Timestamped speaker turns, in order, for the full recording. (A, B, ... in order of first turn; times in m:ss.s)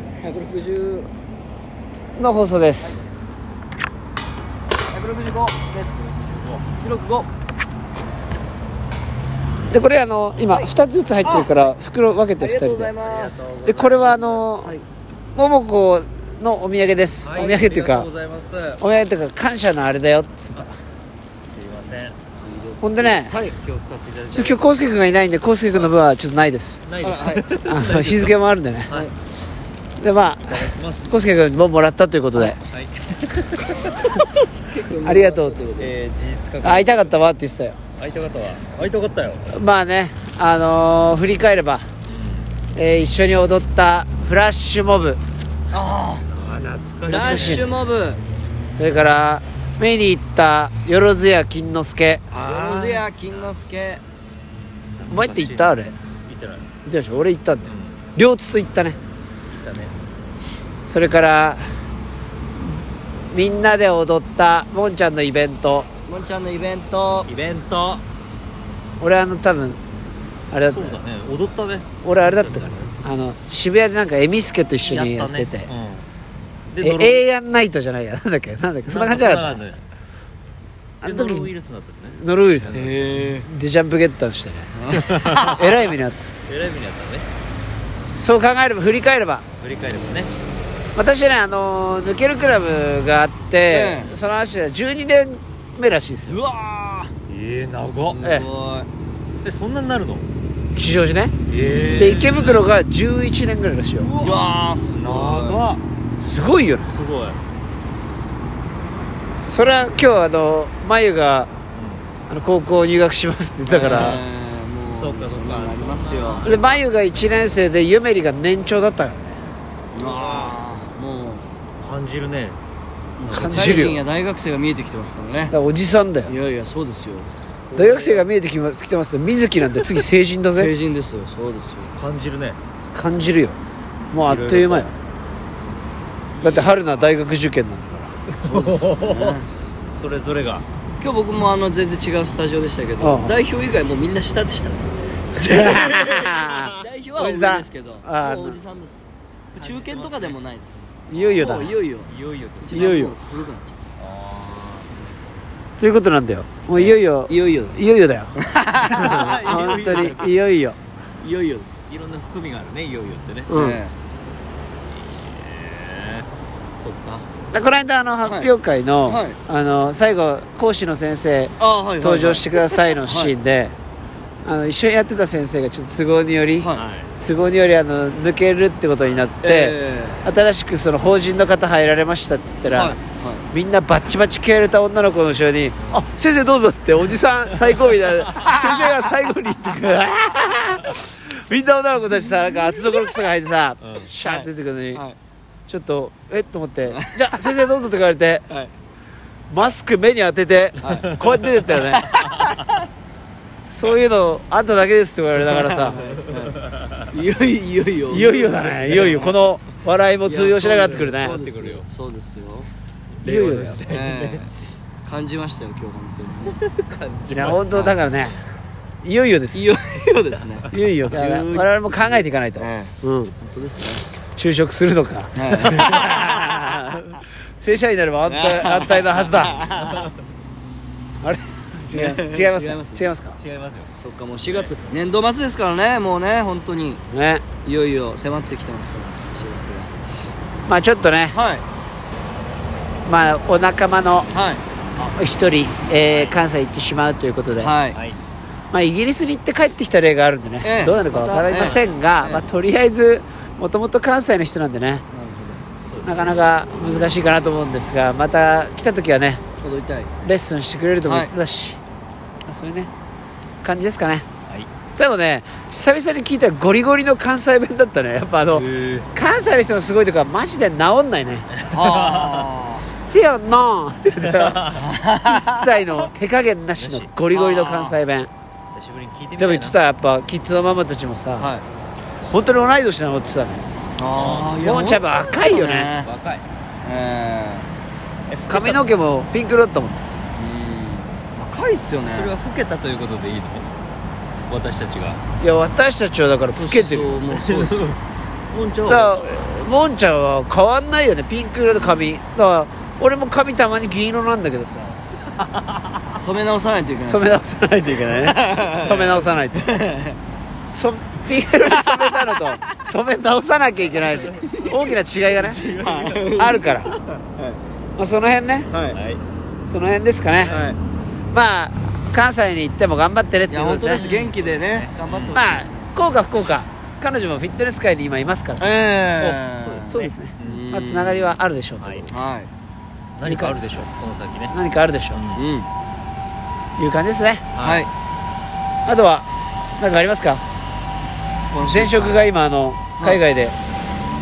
0:00.2-0:01.1 A
0:02.2-0:03.0 B
0:04.9-0:07.3 A
0:06.1-0:06.7 C
0:09.7-0:12.9 B
0:10.4-0:10.7 A
0:11.2-0:11.6 A
0:12.4-0:13.7 A
0:13.0-0:14.4 C
0:13.6-0:14.7 B
0:15.4-0:18.1 B
0:17.2-0:18.8 C
0:18.8-0:20.7 B
0:21.5-0:22.2 C
0:22.3-0:23.6 A
0:22.8-0:23.4 B
0:23.4-0:25.0 C
0:24.3-0:26.8 B
0:26.9-0:28.4 C
0:27.0-0:27.5 A
0:27.6-0:28.9 B
0:30.0-0:32.6 B
0:30.5-0:31.2 C
0:32.7-0:33.9 C
0:34.0-0:35.9 A
0:35.0-0:35.6 B
0:35.8-0:37.2 C
0:36.6-0:37.8 B
0:38.0-0:39.5 C
0:39.5-0:41.9 B
0:42.1-0:42.5 C
0:42.8-0:45.2 B
0:45.7-0:46.3 A
0:46.3-0:47.8 C
0:47.1-0:48.2 A
0:47.1-0:47.7 B
0:48.8-0:52.3 B
0:52.3-0:53.5 C
0:52.3-0:54.0 A
0:55.0-0:55.8 C
0:55.1-0:55.9 B
0:56.3-0:56.7 C
0:56.9-0:59.0 B
0:57.7-0:58.0 C
0:59.5-1:00.0 C
1:00.9-1:01.6 B
1:03.3-1:05.9 B
1:06.1-1:07.3 A
1:07.3-1:08.0 C
1:09.0-1:09.8 B
1:10.5-1:11.0 B
1:10.6-1:12.9 C
1:12.0-1:15.7 B
1:14.9-1:16.1 C
1:16.7-1:17.2 C
1:16.8-1:19.6 B
1:18.9-1:19.8 C
1:21.0-1:21.5 B
1:21.0-1:23.2 C
1:22.2-1:24.7 B
1:22.7-1:23.5 A
1:24.8-1:25.6 A
1:24.9-1:25.5 C
1:25.4-1:26.2 B
1:26.5-1:27.3 C
1:28.2-1:29.4 B
1:29.6-1:30.3 C
1:31.0-1:36.4 B
1:33.7-1:34.2 A
1:36.3-1:37.1 A
1:37.3-1:38.2 C
1:37.9-1:38.9 A
1:39.4-1:40.3 C
1:40.7-1:41.3 B
1:41.5-1:42.7 C
1:41.9-1:44.1 B
1:44.1-1:45.8 C
1:44.2-1:45.7 A
1:46.2-1:47.0 B
1:46.9-1:47.4 C
1:49.4-1:51.5 B
1:51.7-1:52.1 C
1:52.3-1:54.2 B
1:53.7-1:56.5 A
1:54.9-1:56.7 C
1:56.4-1:59.4 B
1:59.9-2:01.4 A
2:00.0-2:00.6 C
2:01.8-2:02.6 C
2:03.2-2:04.0 C
2:03.3-2:04.0 B
2:03.3-2:05.5 A
2:05.5-2:06.3 B
2:06.3-2:07.3 A
2:07.7-2:08.2 C
2:07.8-2:10.7 B
2:10.5-2:11.9 A
2:12.0-2:12.6 C
2:12.9-2:13.6 B
2:14.1-2:14.9 B
2:14.2-2:14.9 C
2:16.4-2:17.2 C
2:16.4-2:18.2 B
2:18.3-2:20.7 C
2:18.4-2:19.5 A
2:21.0-2:26.0 A
2:23.0-2:23.4 B
2:25.4-2:28.6 B
2:25.8-2:26.9 C
2:26.8-2:29.0 A
2:29.5-2:30.4 C
2:29.6-2:32.1 A
2:31.1-2:31.7 B
2:31.1-2:33.1 C
2:32.6-2:33.8 A
2:32.7-2:33.2 B
2:34.0-2:34.9 C
2:35.8-2:38.3 B
2:36.8-2:37.8 A
2:38.4-2:40.2 A
2:38.9-2:40.3 C
2:38.9-2:40.8 B
2:41.2-2:41.8 A
2:41.9-2:43.5 C
2:43.5-2:43.8 B
2:43.5-2:44.0 A
2:44.9-2:46.3 C
2:46.8-2:47.3 C
2:47.5-2:53.7 B
2:48.2-2:48.5 A
2:49.1-2:49.4 A
2:51.6-2:53.3 A
2:54.4-3:03.0 B
2:56.8-2:57.1 C
2:59.4-3:00.3 A
3:02.6-3:03.4 A
3:03.5-3:15.0 B
3:13.8-3:14.1 C
3:14.2-3:15.2 A
3:15.7-3:18.5 B
3:16.9-3:17.2 A
3:19.5-3:22.1 B
3:20.8-3:21.1 A
3:21.9-3:22.8 A
3:23.7-3:26.0 B
3:25.3-3:26.6 A
3:26.3-3:27.1 C
3:27.1-3:29.4 A
3:28.1-3:31.4 B
3:28.9-3:29.2 C
3:30.2-3:32.7 A
3:31.3-3:31.8 C
3:33.2-3:34.4 C
3:33.2-3:33.8 B
3:33.9-3:34.5 A
3:35.0-3:36.6 A
3:36.5-3:38.0 C
3:37.3-3:38.4 B
3:39.0-3:39.8 B
3:39.5-3:44.0 A
3:40.7-3:43.3 B
3:44.4-3:49.6 B
3:45.4-3:46.2 A
3:45.8-3:46.6 C
3:48.3-3:50.1 A
3:49.6-3:50.2 C
3:51.2-3:53.4 B
3:51.9-3:53.1 A
3:53.4-3:53.9 C
3:54.0-3:57.0 A
3:54.5-3:54.7 C
3:57.1-3:57.4 B
3:57.6-4:00.0 A
4:00.7-4:01.4 B
4:01.3-4:01.6 A
4:03.1-4:04.3 B
4:04.3-4:04.6 A
4:05.0-4:07.7 B
4:06.1-4:06.4 C
4:07.6-4:08.0 A
4:07.9-4:08.2 C
4:08.7-4:15.0 B
4:10.6-4:12.4 A
4:15.1-4:15.6 A
4:15.8-4:16.5 C
4:16.0-4:19.4 B
4:19.6-4:20.1 A
4:20.2-4:21.8 B
4:21.0-4:21.3 A
4:22.5-4:22.9 B
4:23.6-4:24.2 B
4:25.0-4:31.5 B
4:28.5-4:29.1 C
4:31.5-4:32.5 C
4:31.7-4:32.9 A
4:33.0-4:34.7 B
4:34.2-4:34.9 C
4:34.7-4:36.1 A
4:35.2-4:38.3 B
4:36.8-4:37.1 C
4:37.3-4:38.0 A
4:38.7-4:39.8 C
4:39.4-4:41.5 B
4:41.4-4:41.6 A
4:42.3-4:43.6 B
4:44.0-4:46.1 A
4:44.1-4:44.6 C
4:44.6-4:45.9 B
4:46.0-4:46.4 C
4:46.8-4:47.7 A
4:48.3-4:48.9 C
4:48.5-4:50.0 B
4:50.4-4:52.3 A
4:52.0-4:53.7 C
4:54.5-4:55.2 C
4:55.4-4:57.2 B
4:56.6-4:57.9 A
4:57.3-4:58.0 C
4:58.5-4:59.3 C
4:58.9-5:05.0 B
5:01.7-5:02.1 A
5:05.4-5:05.9 C
5:06.2-5:07.4 A
5:07.0-5:09.8 B
5:08.1-5:10.2 A
5:10.6-5:15.6 B
5:11.7-5:12.2 A
5:14.1-5:14.6 C
5:15.4-5:16.3 C
5:15.4-5:17.6 A
5:16.3-5:16.9 B
5:18.0-5:18.7 B
5:18.7-5:19.0 A
5:18.9-5:19.2 C
5:19.7-5:20.6 B
5:20.4-5:20.7 C
5:20.5-5:20.8 A
5:21.3-5:24.1 B
5:23.5-5:25.9 A
5:23.9-5:25.4 C
5:25.3-5:28.6 B
5:28.6-5:31.4 A
5:29.2-5:30.6 C
5:29.9-5:32.1 B
5:31.8-5:32.1 C
5:32.1-5:32.5 A
5:33.2-5:34.5 C
5:33.2-5:33.7 B
5:34.5-5:35.2 B
5:35.1-5:35.4 C
5:35.4-5:35.7 A
5:36.8-5:37.4 B
5:37.6-5:37.8 C
5:37.6-5:37.9 A
5:38.9-5:39.3 B
5:39.8-5:40.4 B
5:41.5-5:42.2 A
5:41.6-5:43.6 B